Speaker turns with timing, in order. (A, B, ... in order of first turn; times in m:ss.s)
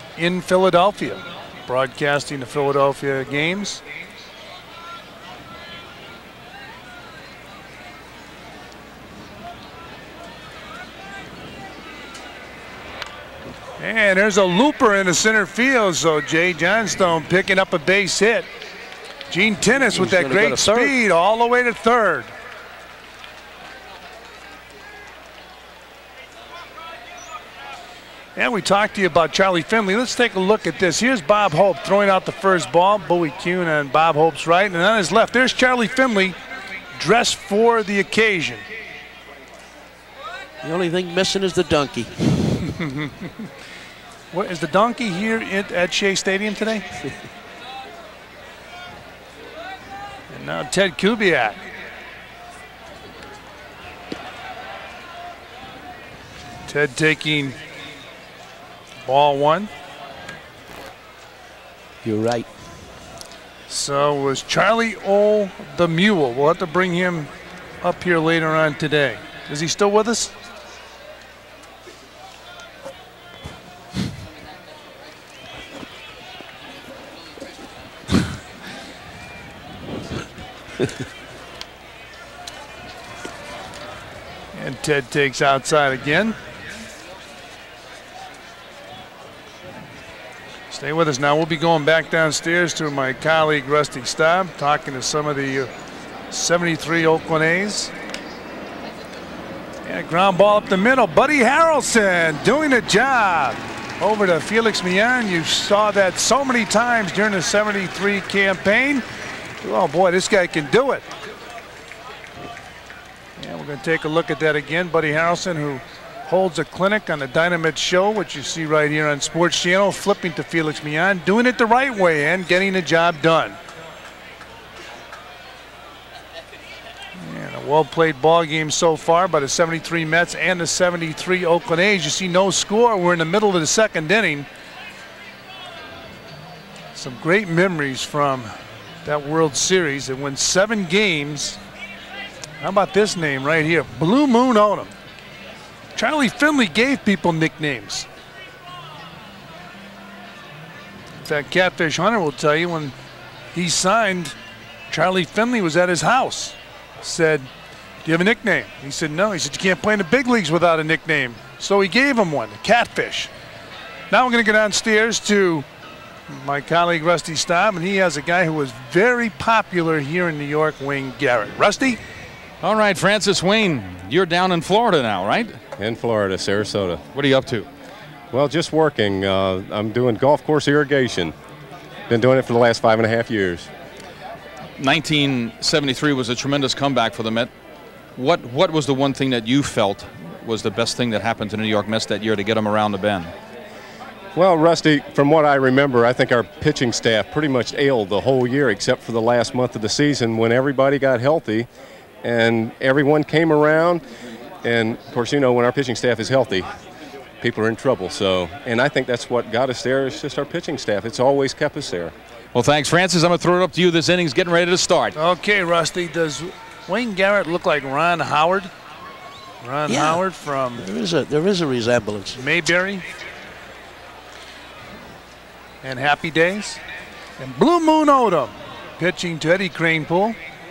0:00.2-0:03.8 A
0:13.8-0:18.5 A
0:19.3-0:22.3 A
0:19.9-0:20.9 B
0:28.4-0:36.4 A
0:37.0-0:38.6 A
0:40.6-0:42.4 B
0:42.7-0:43.3 A
0:44.3-0:46.8 A
0:50.3-0:51.6 A
0:56.6-0:57.6 A
0:59.0-0:59.7 A
1:02.0-1:02.5 B
1:03.7-1:07.3 A
1:07.8-1:10.3 A
1:24.5-1:26.4 A
1:30.7-1:35.7 A
1:36.3-1:37.9 A
1:39.8-1:49.0 A
1:49.6-1:51.0 A
1:53.4-2:03.6 A
2:07.2-2:14.5 A
2:16.9-2:21.6 A
2:22.6-2:24.9 A
2:26.0-2:28.1 A
2:31.2-2:32.9 A
2:33.5-2:34.3 A
2:34.9-2:37.5 A
2:38.0-2:43.3 A
2:44.1-2:45.6 A
2:46.3-2:52.0 A
2:52.6-2:55.6 C
2:55.8-2:57.0 D
2:57.1-2:57.7 C
2:58.3-3:01.3 D
3:02.1-3:03.7 D
3:04.8-3:07.5 C
3:08.2-3:13.3 C
3:14.3-3:21.7 D
3:22.2-3:24.0 D
3:24.6-3:26.7 D
3:27.4-3:32.1 D
3:32.5-3:35.1 C
3:35.1-3:38.7 A
3:39.6-3:40.8 A
3:39.9-3:40.2 B
3:40.8-3:42.4 B
3:42.4-3:43.0 A
3:45.8-3:46.8 A
3:47.4-3:50.4 A